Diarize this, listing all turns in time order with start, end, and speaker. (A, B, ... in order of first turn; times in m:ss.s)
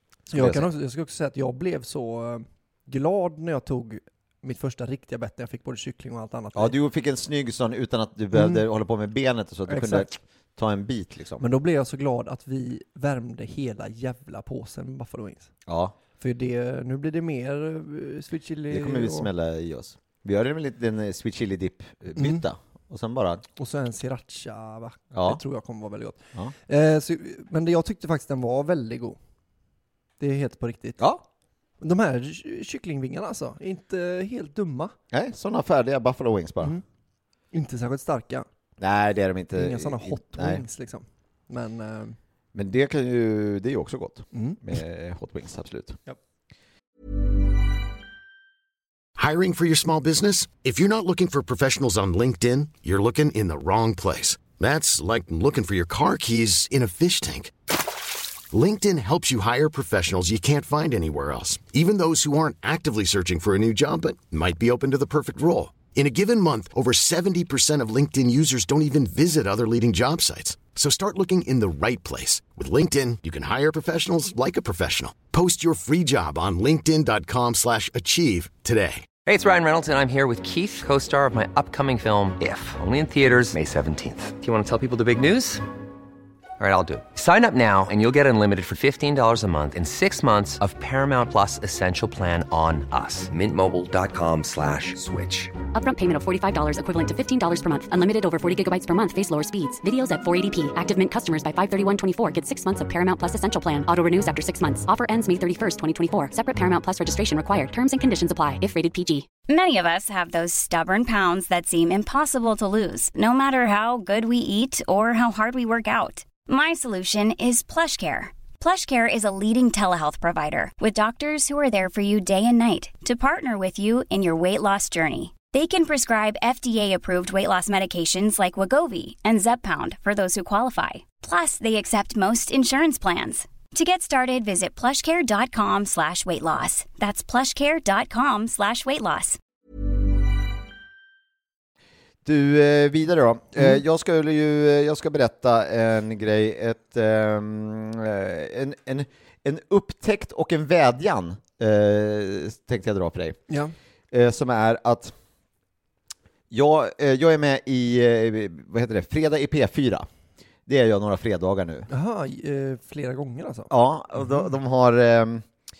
0:00.3-0:06.7 A
0:00.3-0:00.7 B
0:06.5-0:11.4 B
0:08.3-0:08.6 A
0:09.7-0:10.1 A
0:11.4-0:15.5 A
0:15.6-0:15.9 B
0:16.2-0:19.3 A
0:18.7-0:23.4 B
0:22.2-0:22.4 A
0:23.6-0:29.2 A
0:25.1-0:25.4 B
0:30.2-0:31.0 A
0:31.0-0:31.2 B
0:31.8-0:34.9 A
0:35.1-0:36.8 B
0:37.5-0:38.5 A
0:38.8-0:40.6 B
0:39.5-0:42.2 A
0:42.5-0:46.0 B
0:44.3-0:44.6 A
0:49.2-0:57.5 C
0:58.5-1:19.1 C
1:19.2-1:25.6 D
1:26.6-1:35.6 D
1:35.7-1:49.3 E
1:49.5-2:19.4 F
2:22.2-2:33.4 B
2:33.5-2:33.7 A
2:34.1-2:35.1 B
2:36.5-2:40.1 B
2:40.7-2:41.9 B
2:41.9-2:43.7 A
2:43.7-2:45.4 B